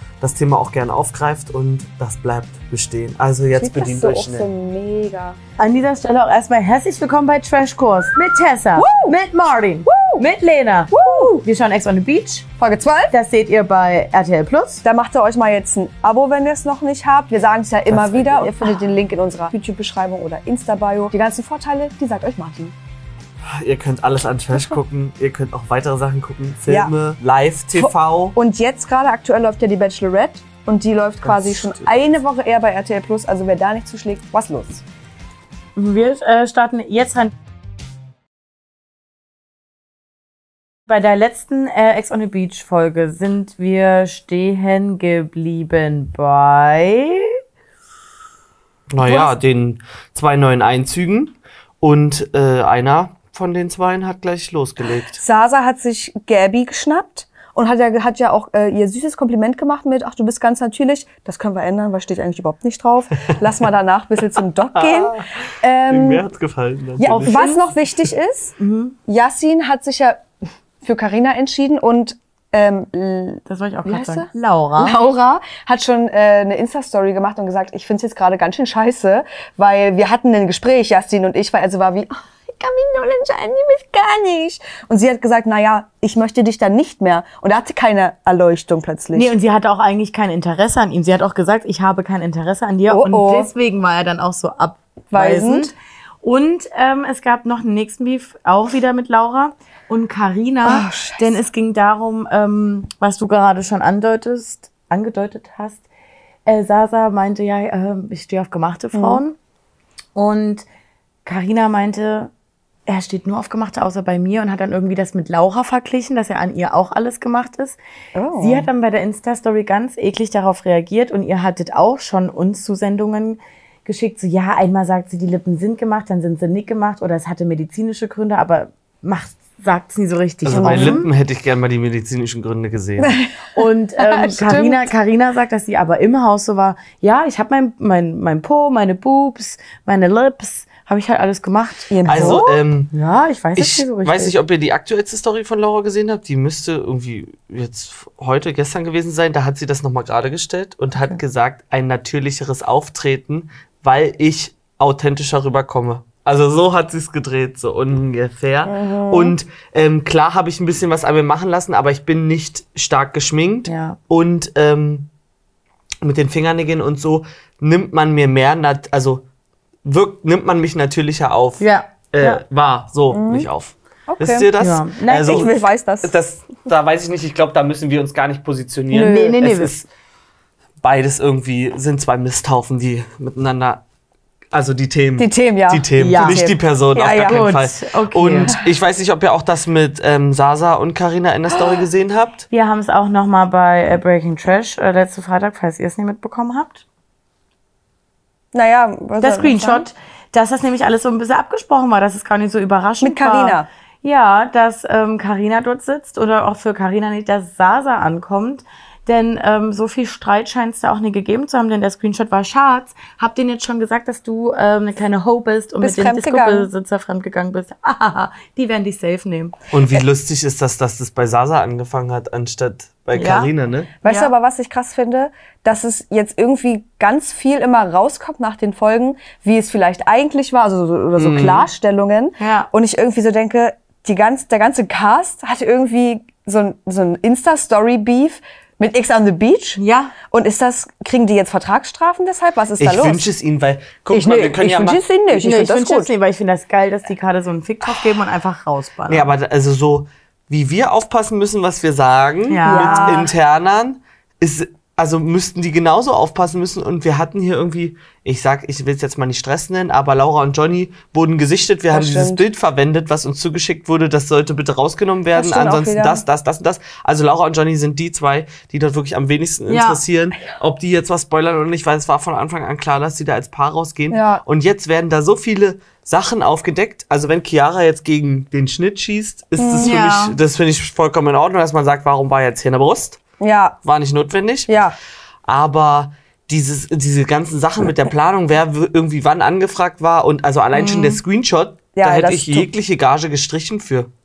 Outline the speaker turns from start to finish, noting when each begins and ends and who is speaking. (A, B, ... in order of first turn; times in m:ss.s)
0:00.2-0:04.5 A
0:03.5-0:05.4 B
0:05.6-0:12.5 C
0:08.8-0:09.2 B
0:09.9-0:10.2 B
0:10.9-0:11.4 B
0:12.6-0:13.1 B
0:13.1-0:14.8 C
0:14.8-0:22.8 B
0:17.9-0:18.5 A
0:23.4-0:28.4 A
0:24.5-0:24.8 B
0:26.7-0:26.9 B
0:27.8-0:34.8 B
0:31.2-0:32.0 A
0:35.8-0:37.3 C
0:40.9-0:47.4 C
0:48.9-0:55.2 A
0:49.0-0:49.3 B
0:55.2-1:06.3 B
1:04.8-1:05.3 A
1:05.9-1:07.5 A
1:07.0-1:08.6 B
1:07.0-1:07.7 C
1:08.6-1:09.0 C
1:09.1-1:10.2 B
1:10.8-1:29.3 B
1:13.5-1:15.0 C
1:29.1-1:45.8 C
1:32.9-1:33.5 B
1:35.1-1:35.7 B
1:40.6-1:41.4 B
1:46.5-1:49.4 C
1:48.9-1:49.2 B
1:50.2-1:50.6 C
1:51.3-1:52.3 C
1:52.9-1:57.8 C
1:58.2-1:58.7 B
1:58.4-2:11.0 C
2:10.4-2:13.2 A
2:10.5-2:11.1 B
2:13.0-2:13.3 B
2:13.6-2:22.4 C
2:14.0-2:14.9 B
2:21.9-2:22.6 B
2:22.1-2:22.9 A
2:22.9-2:24.3 C
2:23.6-2:45.1 A
2:38.7-2:39.4 B
2:43.7-2:44.0 C
2:46.0-2:49.2 A
2:49.8-2:59.9 A
2:51.6-2:52.4 C
2:53.1-2:53.5 B
2:54.1-2:54.5 B
2:54.6-2:55.5 C
2:55.2-2:56.1 B
2:58.9-2:59.4 B
2:58.9-2:59.7 C
3:00.8-3:03.8 A
3:04.5-3:12.4 A
3:05.2-3:07.6 B
3:06.0-3:06.4 C
3:07.0-3:08.5 C
3:11.5-3:11.8 B
3:12.5-3:16.8 C
3:18.5-3:19.9 B
3:19.2-3:39.6 C
3:23.0-3:23.7 B
3:35.8-3:36.7 B
3:39.7-3:43.9 A
3:43.2-3:43.5 C
3:44.0-4:03.2 B
3:44.0-3:44.3 C
3:51.2-3:51.7 A
3:52.4-3:52.7 C
3:59.8-4:00.2 C
4:02.8-4:05.0 A
4:04.1-4:06.1 B
4:05.3-4:09.3 C
4:09.1-4:43.2 A
4:12.5-4:13.2 C
4:12.6-4:13.3 B
4:21.9-4:22.4 B
4:25.3-4:26.2 B
4:29.7-4:30.0 C
4:34.1-4:34.4 B
4:39.6-4:40.0 B
4:39.8-4:40.4 C
4:43.4-4:43.8 B
4:43.8-4:44.7 A
4:44.7-4:45.0 B
4:45.5-4:54.1 A
4:50.7-4:51.2 C
4:51.9-4:52.7 B